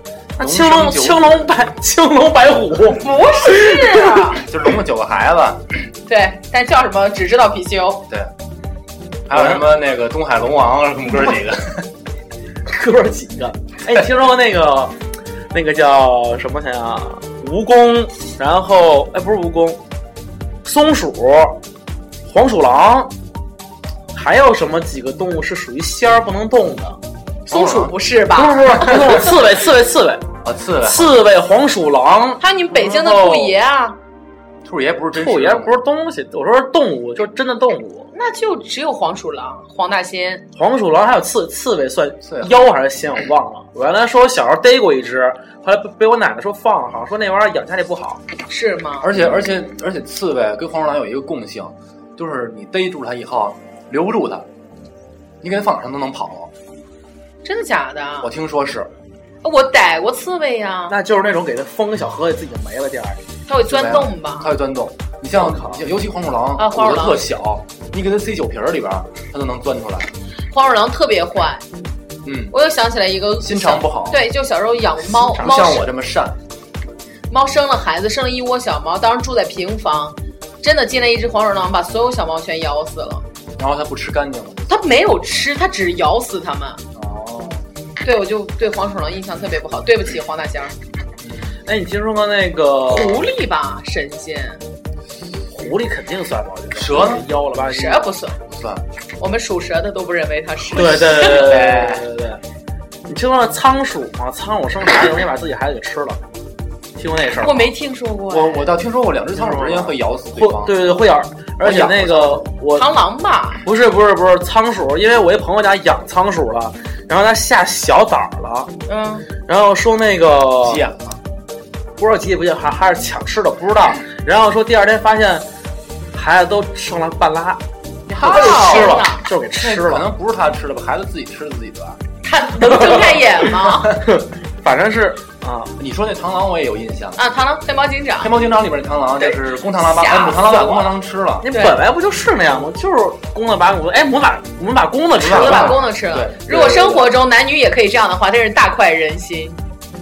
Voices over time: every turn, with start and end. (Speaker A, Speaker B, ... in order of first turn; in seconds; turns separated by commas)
Speaker A: 0.4-1.4, Speaker B: 0.4-4.2, Speaker C: 2.9-4.4, Speaker A: 4.4-5.7, Speaker C: 6.0-8.1, Speaker A: 9.3-11.9, Speaker B: 9.3-9.6, Speaker B: 12.7-14.9, Speaker B: 15.5-19.8, Speaker B: 20.6-21.6, Speaker B: 22.3-23.1, Speaker B: 24.1-27.0, Speaker C: 27.5-29.3, Speaker A: 27.5-28.0, Speaker B: 28.3-30.2, Speaker A: 30.4-31.2, Speaker B: 30.8-33.5, Speaker C: 32.4-34.0, Speaker A: 34.6-35.7, Speaker B: 35.1-38.1, Speaker C: 38.1-40.5, Speaker B: 40.5-48.2, Speaker A: 42.2-42.5, Speaker C: 48.5-49.1, Speaker A: 49.0-54.5, Speaker A: 55.4-56.5, Speaker C: 57.4-58.3, Speaker A: 58.2-58.9, Speaker C: 59.4-61.0, Speaker B: 60.9-63.2, Speaker C: 63.5-64.5, Speaker A: 63.6-70.1, Speaker B: 65.4-65.8, Speaker C: 66.6-67.3, Speaker C: 70.5-71.7, Speaker A: 72.2-72.5, Speaker C: 72.5-75.8, Speaker A: 73.4-74.2, Speaker A: 75.3-76.4, Speaker C: 77.3-83.2, Speaker A: 83.6-84.9, Speaker C: 84.7-86.8, Speaker A: 86.9-87.6, Speaker C: 88.0-90.8, Speaker A: 91.2-91.5, Speaker B: 91.7-93.3, Speaker C: 92.9-94.6, Speaker B: 95.5-98.1, Speaker A: 96.7-97.2, Speaker C: 97.6-98.4, Speaker A: 98.5-98.8, Speaker C: 99.2-101.6, Speaker B: 100.7-102.4, Speaker A: 101.1-102.0, Speaker B: 103.1-106.2, Speaker B: 107.0-107.7, Speaker C: 107.4-108.8, Speaker A: 108.3-110.8, Speaker B: 109.3-112.9, Speaker A: 111.6-112.5, Speaker C: 112.8-113.6, Speaker B: 113.6-118.7, Speaker C: 118.9-119.3, Speaker B: 119.5-120.8, Speaker A: 120.6-121.2, Speaker B: 122.0-125.5, Speaker B: 126.1-127.6, Speaker B: 128.1-130.1, Speaker A: 128.1-129.1, Speaker C: 128.1-129.2, Speaker A: 129.6-132.0, Speaker C: 132.2-134.0, Speaker B: 132.7-133.2, Speaker B: 134.0-135.7, Speaker A: 135.8-137.2, Speaker C: 137.2-138.4, Speaker A: 138.2-141.4, Speaker C: 139.2-140.9, Speaker B: 141.4-145.8, Speaker C: 141.5-141.8, Speaker A: 145.2-147.1, Speaker C: 145.2-149.6